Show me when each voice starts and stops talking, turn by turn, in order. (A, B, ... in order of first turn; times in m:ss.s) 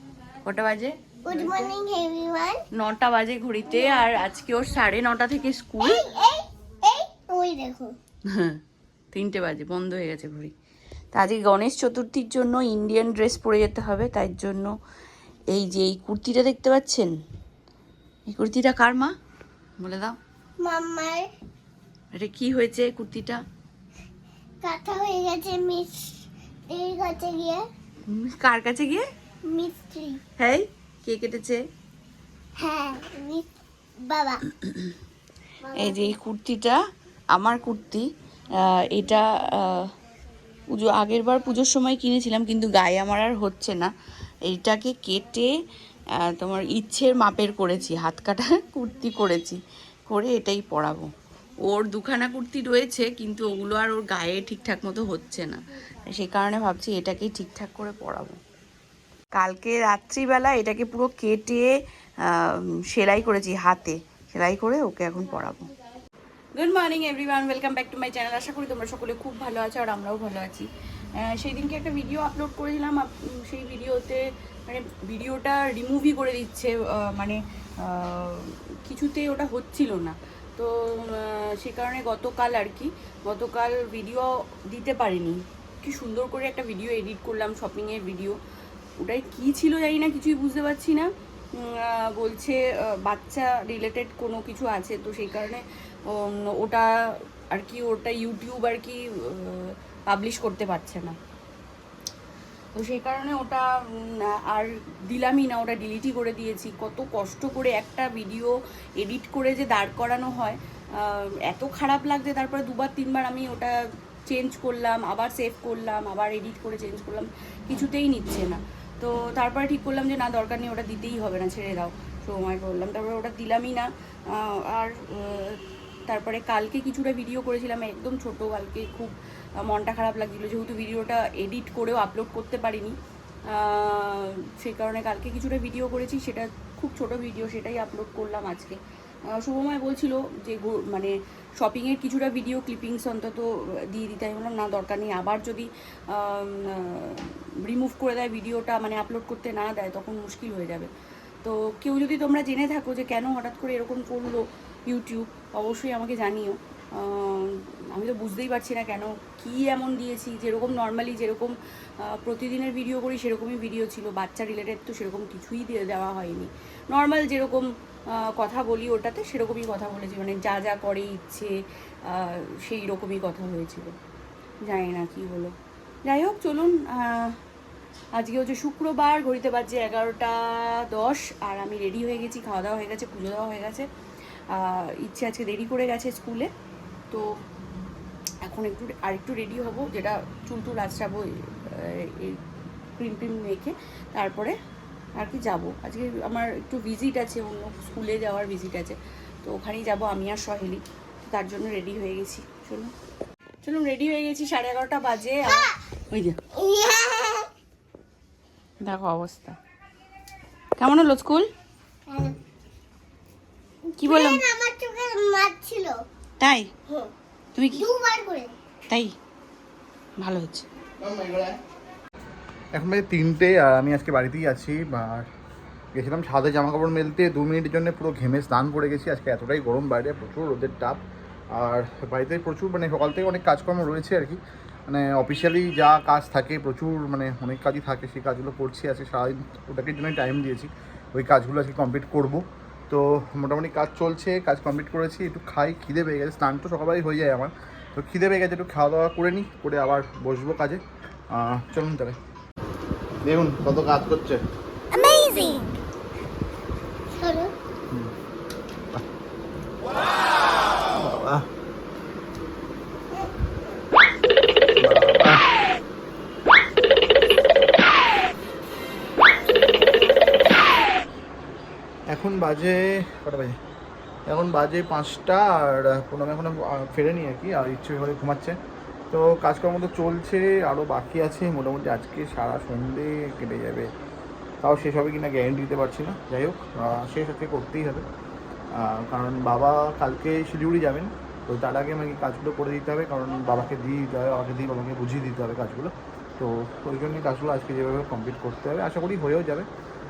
0:00.4-0:01.7 A
0:01.2-0:02.6 B
0:02.7-0:06.0 A
0:05.8-0:08.0 B
0:08.3-0:08.6 A
0:09.1-0:10.5 A
0:11.1-0:14.7 A
0:15.5-0:17.1 A
0:18.3-0:19.1 A
0:19.8-0:20.2 A
0:20.6-0:21.2 B
0:22.2-0:23.4 A
0:24.6-0:27.6 B
0:28.1-0:29.0 A
0:29.4-0:30.2 B
0:30.4-0:31.6 A
0:32.6-0:33.5 B
0:34.0-0:34.4 B
0:34.6-0:34.9 A
0:35.6-0:36.1 B
0:35.8-0:36.8 A
0:37.3-0:39.9 A
0:40.7-0:43.9 A
0:44.4-0:45.5 A
0:46.2-0:51.1 A
0:51.6-0:58.4 A
0:59.3-1:01.7 A
1:02.3-1:05.7 A
1:06.6-1:28.4 A
1:29.0-1:36.9 A
1:37.5-1:41.2 A
1:42.7-1:53.7 A
1:54.3-2:12.9 A
2:13.5-2:18.8 A
2:19.3-2:30.9 A
2:31.4-2:53.9 A
2:54.6-2:55.5 A
2:56.0-2:57.4 A
2:58.1-3:03.9 A
3:04.5-3:06.5 A
3:08.4-3:12.4 A
3:13.0-3:14.5 A
3:15.2-3:22.9 A
3:23.6-3:26.4 A
3:26.5-3:27.5 B
3:28.8-3:29.6 A
3:30.8-3:31.5 A
3:32.1-3:32.4 B
3:34.0-3:36.0 B
3:34.0-3:34.4 A
3:36.4-3:36.7 A
3:37.5-3:37.9 A
3:37.7-3:38.5 B
3:40.2-3:40.7 A
3:41.0-3:41.6 C
3:42.7-3:45.3 C
3:45.9-3:51.0 C
3:51.5-4:12.2 C
4:13.2-4:14.4 C
4:14.9-4:15.7 B
4:17.1-4:17.5 B
4:20.9-4:21.4 C
4:24.8-4:25.5 C
4:32.1-4:33.6 C
4:34.3-4:38.6 C
4:39.1-4:43.9 C
4:44.6-4:48.0 C
4:48.7-4:59.7 C